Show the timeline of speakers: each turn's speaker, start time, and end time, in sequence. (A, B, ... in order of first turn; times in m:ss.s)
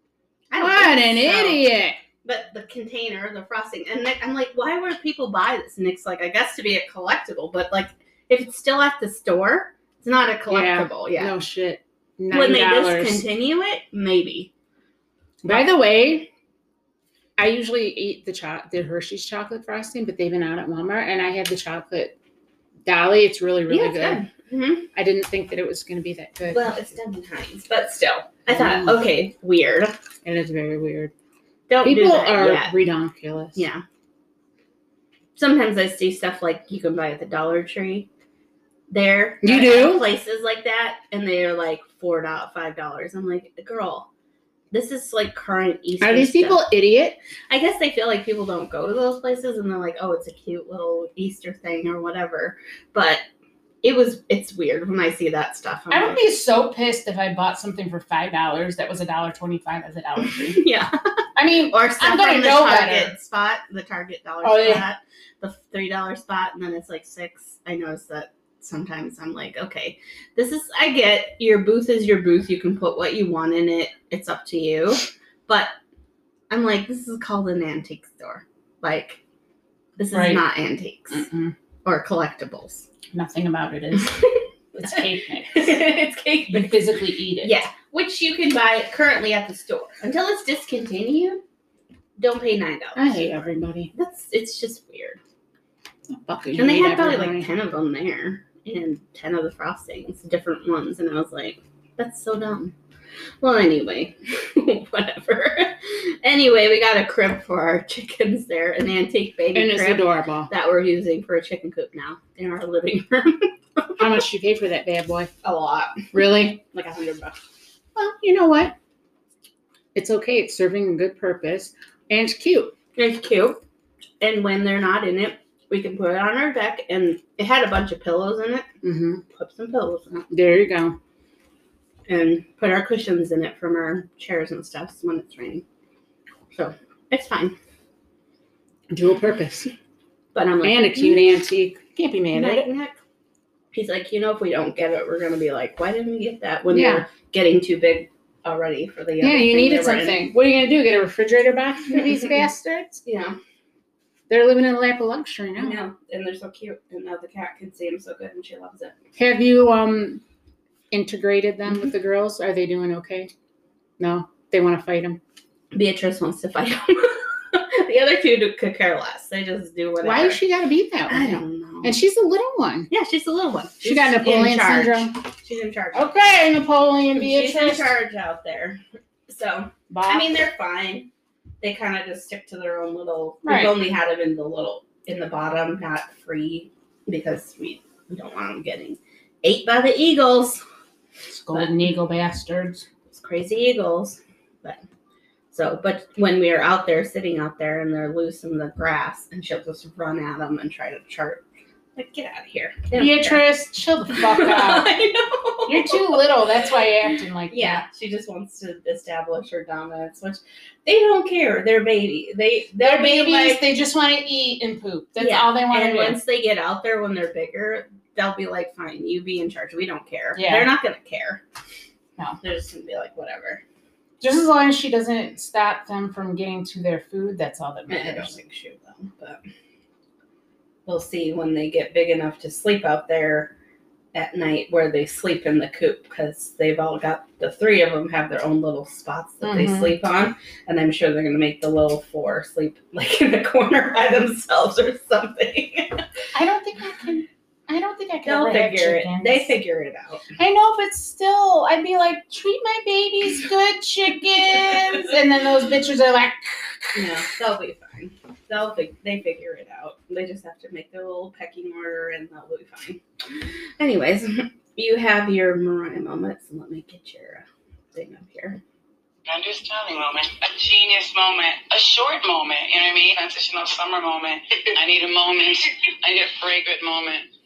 0:00.5-0:01.6 A
0:00.6-0:02.0 B
0:02.2-0:11.3 A
0:10.5-0:13.2 B
0:12.3-0:14.5 A
0:15.4-0:16.3 B
0:17.4-0:22.2 B
0:22.8-0:24.2 B
0:23.7-0:24.9 A
0:24.9-0:26.8 B
0:26.5-0:30.0 A
0:28.5-0:29.0 B
0:30.2-0:31.1 B
0:31.7-0:32.7 A
0:31.8-0:33.6 B
0:33.6-0:33.8 A
0:35.4-0:38.1 A
0:38.9-0:44.1 A
0:39.4-0:40.1 B
0:44.7-0:46.6 A
0:46.0-0:47.2 B
0:47.5-0:53.2 A
0:53.8-0:56.2 A
0:55.9-1:00.7 B
1:00.4-1:01.0 A
1:01.4-1:03.1 B
1:01.7-1:15.7 A
1:04.4-1:04.8 B
1:16.5-1:19.2 A
1:20.0-1:21.3 A
1:20.1-1:20.5 B
1:21.1-1:21.6 B
1:21.8-1:22.9 A
1:23.1-1:25.7 B
1:24.0-1:31.4 A
1:26.5-1:27.6 B
1:32.2-1:33.4 A
1:33.0-1:33.9 B
1:33.9-1:35.2 A
1:36.1-1:37.5 B
1:36.6-1:42.7 A
1:43.4-1:54.1 A
1:49.5-1:50.5 B
1:54.0-1:55.3 B
1:55.4-1:57.4 A
1:56.1-1:56.6 B
1:58.0-1:58.8 B
2:00.0-2:02.7 B
2:03.0-2:03.6 A
2:04.2-2:08.7 A
2:08.8-2:09.2 B
2:09.3-2:10.2 A
2:10.2-2:11.0 B
2:12.1-2:15.6 A
2:16.5-2:17.6 A
2:18.9-2:19.7 B
2:20.3-2:21.4 A
2:20.6-2:22.7 B
2:22.3-2:23.0 A
2:23.7-2:30.2 A
2:26.7-2:27.1 B
2:29.2-2:33.0 B
2:33.0-2:33.4 A
2:34.3-2:35.8 B
2:35.6-2:39.0 A
2:39.2-2:40.2 B
2:40.9-2:43.3 B
2:44.0-2:45.2 B
2:45.7-2:50.4 A
2:50.0-2:52.9 B
2:51.1-2:52.0 A
2:52.9-2:56.2 A
2:53.8-2:55.2 B
2:55.9-2:58.0 B
2:57.2-3:01.1 A
2:59.9-3:00.3 B
3:01.6-3:10.6 A
3:03.4-3:03.8 B
3:11.3-3:12.9 B
3:11.5-3:11.8 A
3:13.1-3:14.8 A
3:15.5-3:21.4 A
3:22.0-3:23.4 A
3:22.9-3:24.9 B
3:24.1-3:26.2 A
3:25.7-3:27.8 B
3:27.5-3:33.6 A
3:32.8-3:36.2 B
3:35.2-3:41.4 A
3:40.4-3:40.7 B
3:42.4-3:43.6 A
3:44.2-3:48.3 B
3:47.9-3:49.4 A
3:50.9-3:53.5 A
3:54.1-4:06.1 A
3:59.4-3:59.9 B
4:06.3-4:09.6 B
4:08.2-4:10.3 A
4:10.4-4:17.1 B
4:17.0-4:28.6 A
4:29.3-4:37.3 C